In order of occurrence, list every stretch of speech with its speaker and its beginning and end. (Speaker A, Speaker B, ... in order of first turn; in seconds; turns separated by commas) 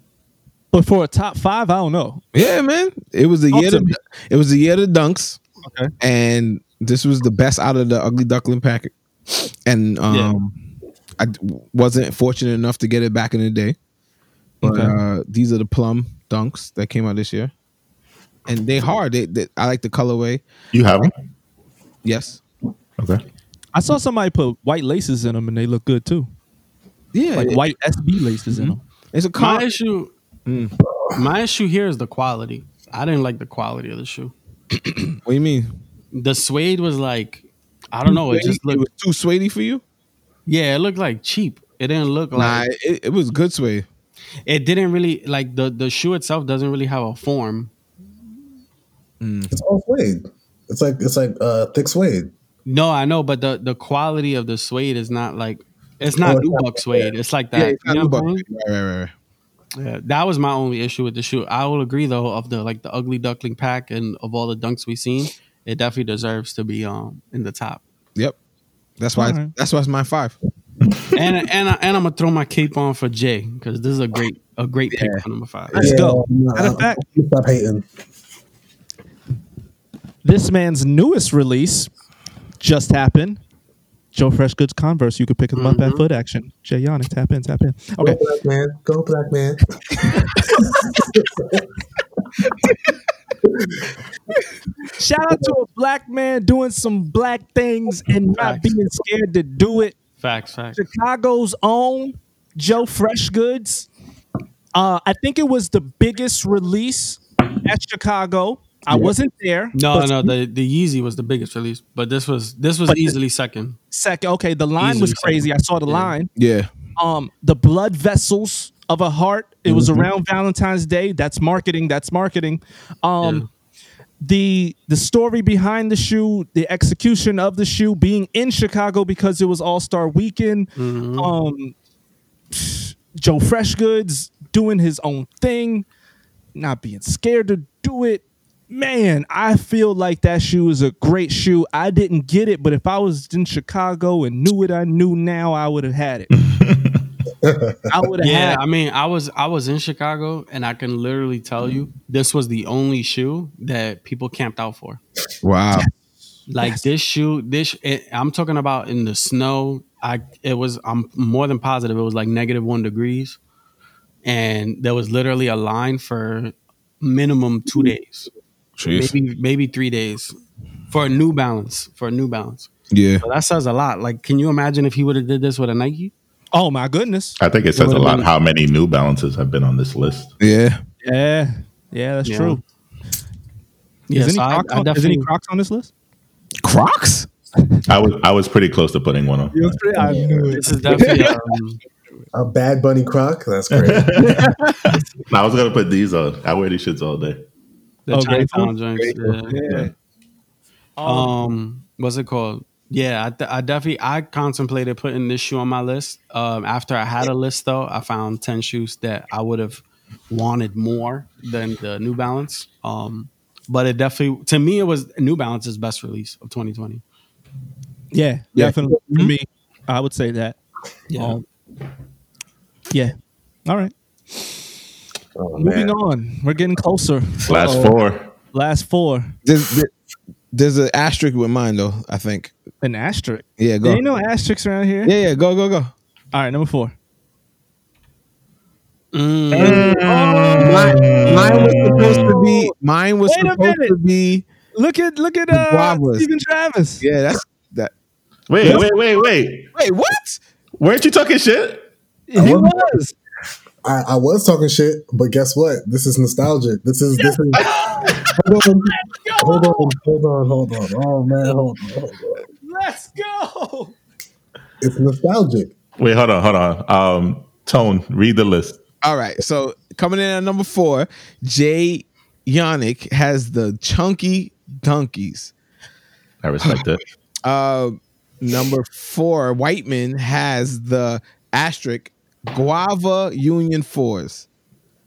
Speaker A: 0.7-2.2, Speaker B: 2.3-5.4, Speaker A: 3.5-3.9, Speaker A: 5.6-5.9, Speaker B: 6.0-10.6, Speaker C: 10.1-10.3, Speaker B: 11.2-13.8, Speaker A: 14.6-15.0, Speaker B: 14.6-17.5, Speaker B: 18.5-20.4, Speaker D: 20.7-21.1, Speaker B: 22.0-22.4, Speaker D: 23.0-23.2, Speaker A: 23.7-26.3, Speaker B: 27.1-27.7, Speaker A: 27.3-28.8, Speaker B: 28.5-29.7, Speaker C: 29.4-30.1, Speaker B: 30.5-30.8, Speaker C: 31.1-34.3, Speaker A: 34.9-35.2, Speaker B: 35.2-35.8, Speaker C: 36.1-38.9, Speaker B: 38.1-39.8, Speaker C: 40.5-42.6, Speaker B: 42.4-43.9, Speaker C: 44.5-47.7, Speaker B: 49.2-49.5, Speaker E: 49.5-52.3, Speaker C: 52.7-58.5, Speaker E: 56.2-57.1, Speaker B: 57.5-59.1, Speaker C: 59.8-67.8, Speaker B: 69.0-70.4, Speaker A: 69.2-69.5, Speaker C: 71.1-76.0, Speaker B: 74.9-76.0, Speaker E: 75.7-77.9, Speaker A: 75.8-77.0, Speaker A: 80.2-81.9, Speaker A: 82.6-83.4, Speaker A: 84.1-88.2, Speaker C: 85.5-86.0, Speaker E: 88.0-89.7, Speaker A: 90.2-90.8, Speaker E: 90.8-91.6, Speaker A: 95.0-100.0, Speaker C: 98.4-98.7, Speaker C: 100.2-100.8, Speaker A: 100.8-103.9, Speaker A: 104.8-110.3, Speaker C: 109.7-113.8, Speaker A: 112.9-113.2, Speaker A: 113.9-116.3, Speaker C: 114.8-116.1, Speaker B: 116.3-116.7, Speaker A: 117.0-123.5, Speaker B: 119.7-120.1, Speaker A: 124.2-131.8, Speaker C: 130.8-131.3, Speaker A: 132.5-135.9, Speaker A: 136.6-146.3, Speaker D: 146.3-147.0, Speaker E: 147.4-147.8, Speaker A: 147.9-148.6, Speaker C: 148.2-155.0, Speaker B: 155.4-155.9, Speaker C: 156.5-163.4, Speaker C: 164.2-168.3, Speaker B: 168.8-169.1, Speaker C: 168.9-170.4, Speaker C: 170.9-172.7, Speaker B: 172.9-173.2, Speaker C: 173.2-176.1, Speaker A: 176.5-177.8, Speaker D: 177.4-180.3, Speaker C: 177.8-178.3, Speaker B: 180.4-180.8, Speaker A: 181.0-182.6, Speaker C: 182.2-182.6, Speaker C: 184.1-185.3, Speaker A: 184.1-185.9, Speaker B: 186.6-187.3, Speaker D: 187.9-189.8, Speaker A: 189.5-191.2, Speaker E: 189.9-190.6, Speaker C: 190.6-191.8, Speaker B: 190.9-191.4, Speaker E: 192.3-194.2, Speaker D: 193.7-197.4, Speaker C: 198.1-199.6, Speaker A: 198.1-198.7, Speaker B: 199.0-199.9, Speaker D: 199.7-199.9, Speaker A: 201.0-201.3, Speaker C: 201.0-217.0, Speaker A: 218.1-220.6, Speaker B: 218.6-219.3, Speaker C: 221.1-221.4, Speaker A: 221.1-221.4, Speaker A: 223.7-224.6, Speaker E: 225.3-225.9, Speaker A: 225.6-228.0, Speaker D: 227.5-228.3, Speaker A: 228.5-229.4, Speaker B: 229.4-229.9, Speaker B: 230.5-232.5, Speaker A: 232.8-235.1, Speaker B: 233.6-234.0, Speaker B: 235.1-235.9, Speaker A: 236.3-236.9, Speaker C: 239.1-240.0, Speaker A: 239.5-242.7, Speaker D: 239.6-242.4, Speaker B: 240.6-244.4, Speaker A: 243.3-244.0, Speaker A: 244.7-247.0, Speaker B: 245.5-246.3, Speaker B: 247.0-247.9, Speaker D: 248.5-249.7, Speaker A: 248.6-248.9, Speaker B: 249.8-250.4, Speaker D: 250.8-251.9, Speaker A: 252.3-253.2, Speaker E: 252.4-252.9, Speaker E: 253.8-257.7, Speaker A: 257.6-258.3, Speaker E: 258.2-262.4, Speaker A: 258.9-259.9, Speaker A: 262.6-263.9, Speaker E: 264.8-265.7, Speaker D: 266.0-268.8, Speaker B: 269.0-275.5, Speaker D: 276.4-277.0, Speaker B: 277.4-284.5